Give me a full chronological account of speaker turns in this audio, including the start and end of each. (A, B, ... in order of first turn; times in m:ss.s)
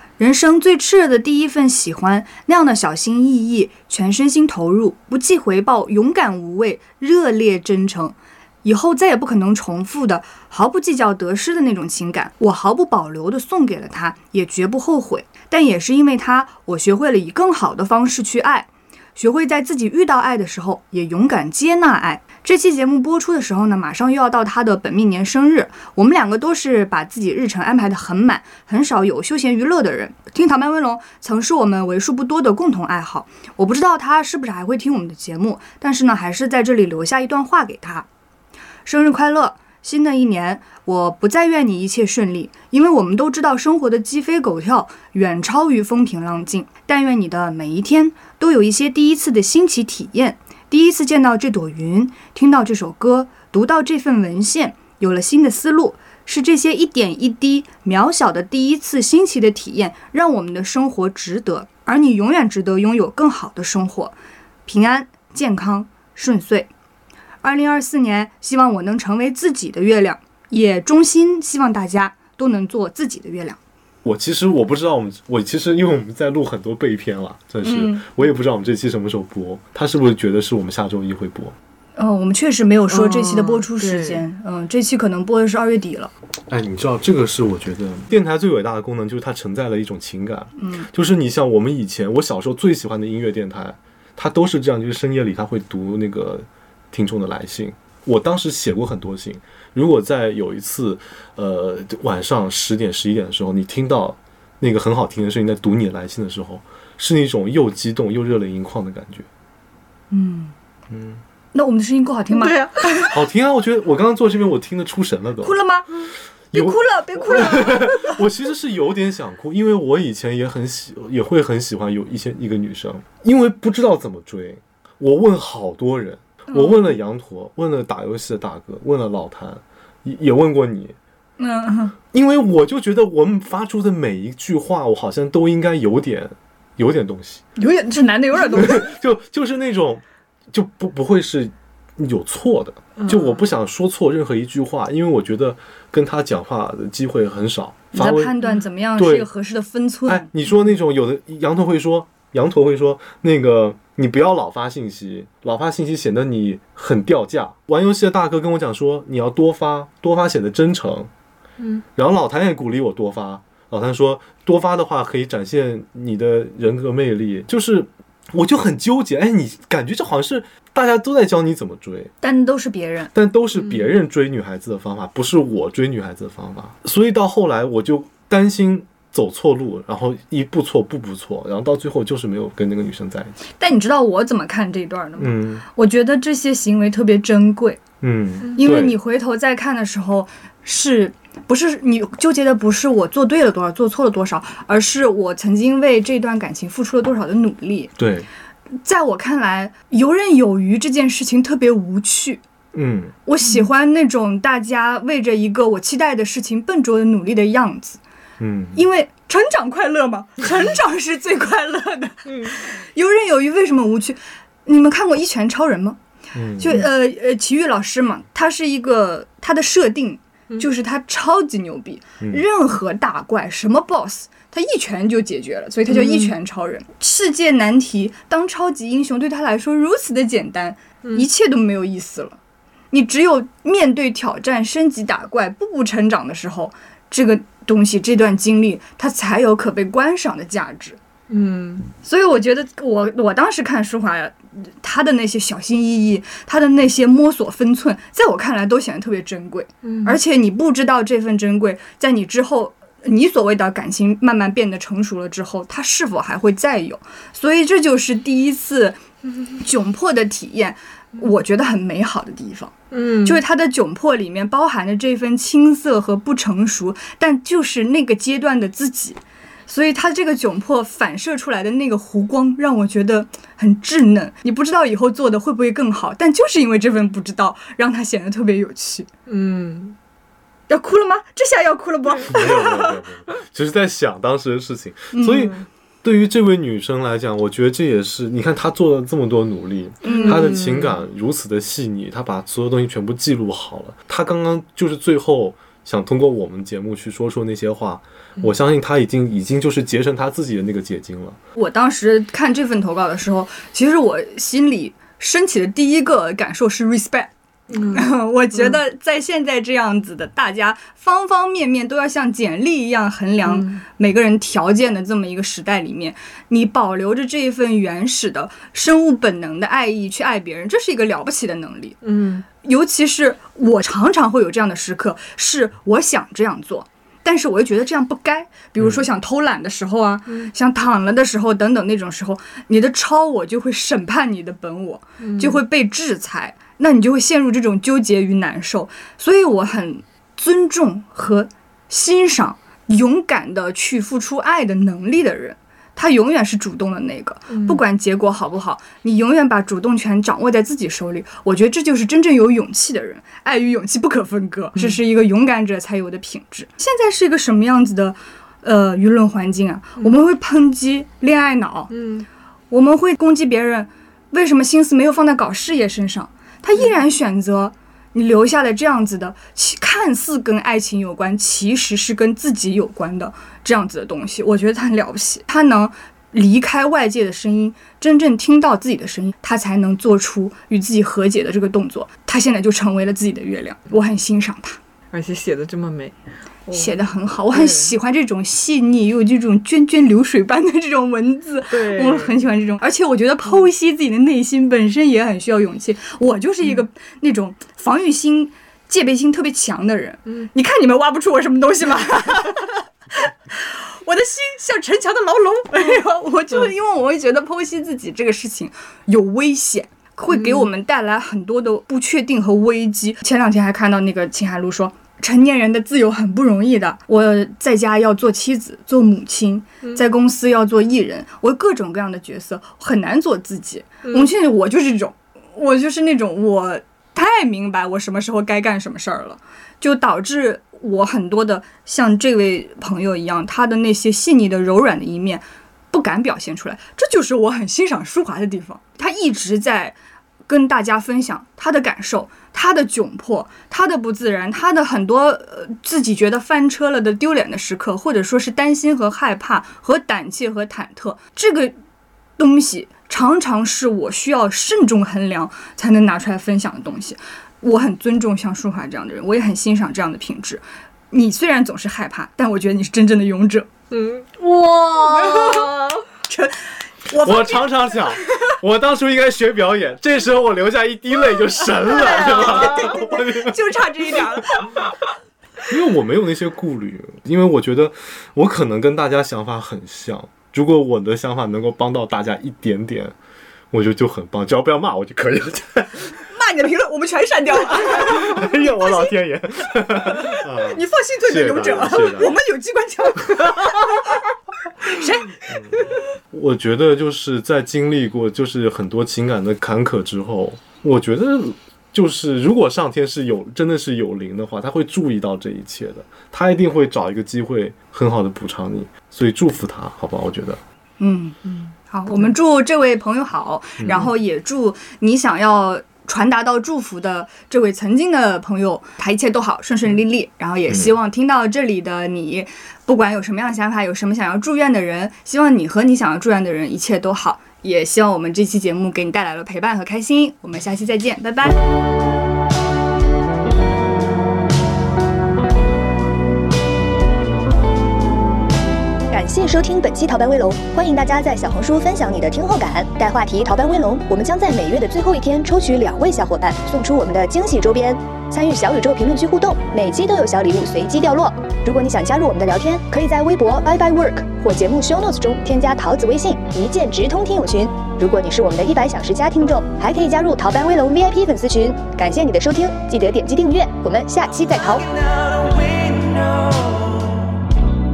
0:00.2-0:38.1 A
0:38.8-1:06.7 A
1:07.4-1:13.6 A
1:14.0-1:21.6 B
1:17.6-1:18.1 A
1:22.0-1:26.1 A
1:23.3-1:24.1 C
1:26.5-1:49.2 B
1:30.6-1:30.9 A
1:50.1-1:50.5 A
1:50.9-1:51.2 B
1:51.5-1:53.1 A
1:52.3-1:52.7 C
1:53.1-1:55.6 B
1:55.4-1:55.9 A
1:56.5-1:58.2 A
1:56.5-2:11.0 B
2:06.5-2:06.9 A
2:11.4-2:11.9 A
2:12.1-2:17.4 B
2:17.6-2:18.9 A
2:18.5-2:28.3 B
2:27.9-2:30.3 A
2:29.0-2:29.3 B
2:30.0-2:41.1 B
2:41.6-2:41.8 C
2:42.0-2:52.1 B
2:52.2-2:53.1 A
2:53.1-3:03.3 B
3:03.6-3:07.8 A
3:05.2-3:05.6 B
3:08.0-3:09.0 B
3:08.6-3:17.9 A
3:18.0-3:18.3 B
3:18.8-3:22.4 A
3:22.7-3:23.1 B
3:23.2-3:28.0 A
3:28.4-3:28.8 B
3:28.7-3:36.0 A
3:32.3-3:32.5 C
3:36.3-3:36.9 B
3:36.6-3:52.4 A
3:42.2-3:42.4 B
3:45.9-3:46.3 C
3:52.9-4:01.0 A
4:01.3-4:01.9 C
4:02.0-4:19.0 A
4:09.8-4:10.2 C
4:19.6-4:39.1 A
4:22.9-4:23.4 C
4:39.3-4:40.0 C
4:40.7-4:42.9 A
4:42.3-5:01.4 B
4:45.1-4:45.5 A
4:50.0-4:50.6 A
4:50.1-4:50.9 C
5:01.6-5:07.3 A
5:07.7-5:08.8 C
5:07.9-5:22.0 A
5:13.4-5:13.8 C
5:22.0-5:22.4 C
5:22.5-6:01.9 A
5:30.3-5:30.5 C
5:35.2-5:35.6 C
5:47.5-5:47.8 C
6:00.0-6:00.2 C
6:01.9-6:02.3 C
6:02.7-6:24.8 A
6:25.1-6:26.1 C
6:26.6-6:27.9 C
6:26.7-7:20.0 A
6:31.7-6:32.3 C
6:50.3-6:50.7 C
7:04.0-7:04.3 C
7:20.5-7:31.8 A
7:32.4-7:43.7 A
7:44.4-7:47.9 A
7:45.3-7:45.9 C
7:47.2-7:53.6 B
7:51.8-7:54.7 A
7:52.4-7:52.6 C
7:55.7-8:03.1 B
8:03.7-8:06.1 B
8:06.3-8:09.1 A
8:07.8-8:12.4 B
8:10.6-8:13.9 A
8:14.8-8:15.4 A
8:15.5-8:15.8 B
8:16.3-8:30.6 B
8:31.0-8:51.6 A
8:33.8-8:34.1 B
8:59.1-9:24.9 D
9:24.3-9:27.4 E